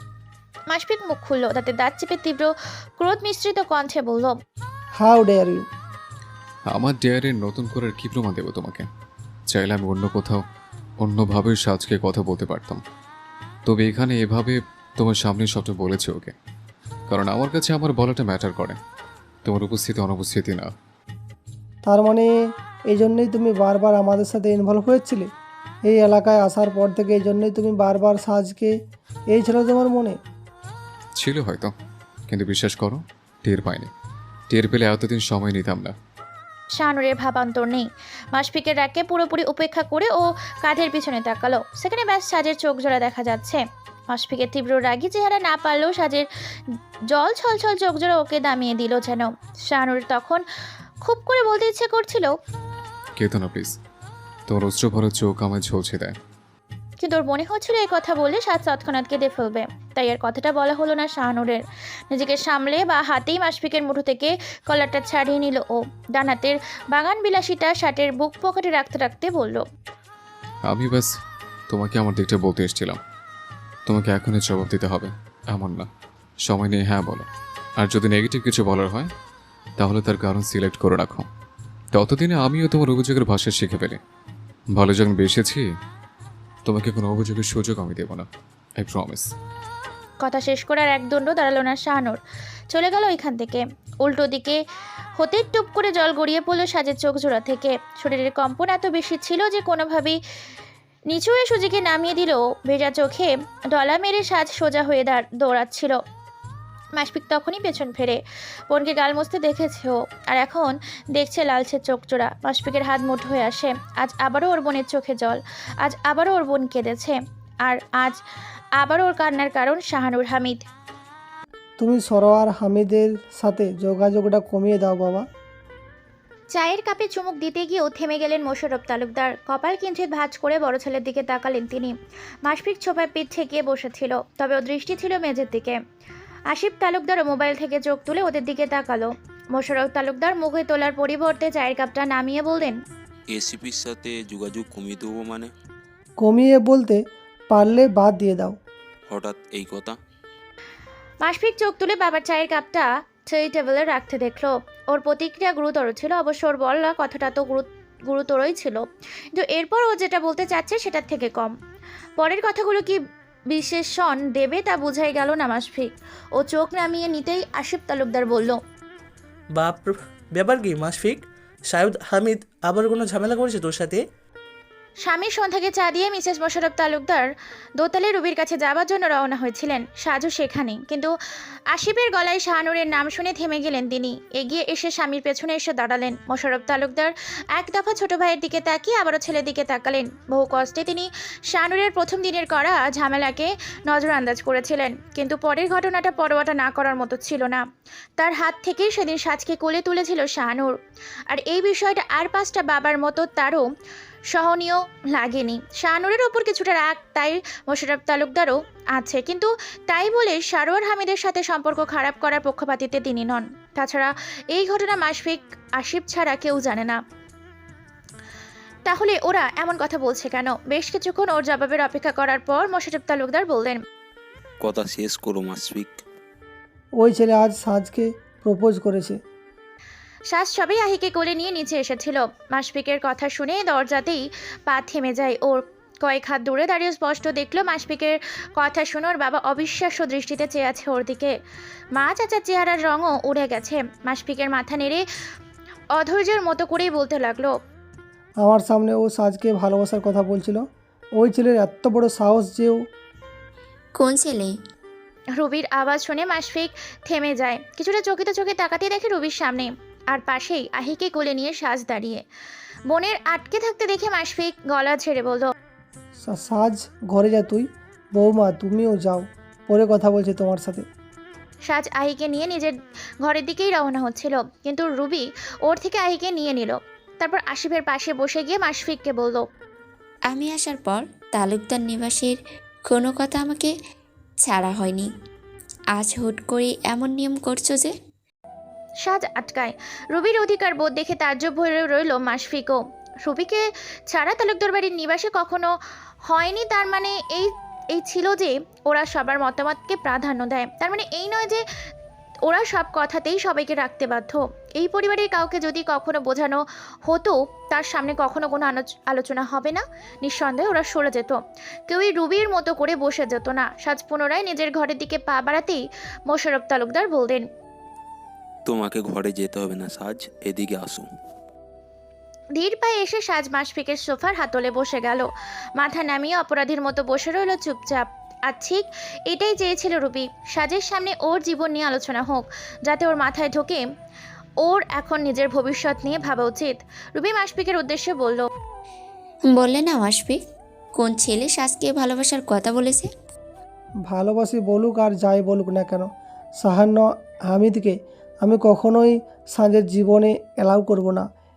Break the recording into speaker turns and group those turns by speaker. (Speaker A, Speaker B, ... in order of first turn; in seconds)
Speaker A: 0.7-4.3, 36.8-46.2, 47.1-50.4, 51.0-52.3, 57.0-61.6, 62.1-69.6, 90.2-92.2, 92.7-94.6, 95.2-100.2, 101.1-106.0, 107.0-118.2, 118.8-120.6, 126.5-131.9, 132.4-135.8, 136.5-142.8, 151.2-158.8, 159.3-161.5, 162.2-163.0, 163.5-168.6, 175.0-181.1, 181.7-197.6, 198.2-200.7, 201.3-203.7, 204.3-217.0, 218.9-223.8, 230.3-241.3, 242.0-245.0, 245.9-247.5, 255.4-262.2, 262.9-265.5, 271.7-279.4, 289.0-295.7, 296.3-301.6, 302.4-317.4, 322.6-325.3, 325.8-333.8, 334.6-338.5
Speaker B: 5.0-5.6, 21.8-22.3, 22.9-25.3, 25.9-28.7, 29.3-30.2, 121.8-125.2, 146.2-148.6, 227.0-229.2, 248.4-250.6, 251.2-252.8, 266.2-270.8, 344.1-346.1, 346.6-351.2
Speaker C: 6.7-8.9, 9.5-10.4, 11.0-12.8, 13.7-16.3, 17.1-18.8, 19.4-20.7, 31.2-31.7, 32.3-33.9, 34.5-35.9, 53.2-53.7, 54.5-56.2, 70.7-71.1, 71.7-73.0, 73.8-75.9, 76.5-77.3, 77.8-79.1, 79.8-81.2, 81.9-84.0, 84.8-85.6, 86.7-88.3, 88.8-89.3
Speaker D: 143.3-145.5, 149.1-150.0, 224.6-226.0, 318.6-321.1
Speaker E: 169.5-174.1
Speaker F: 253.9-254.6, 280.3-283.7, 284.4-285.1, 285.9-287.9, 339.5-340.4, 340.9-343.1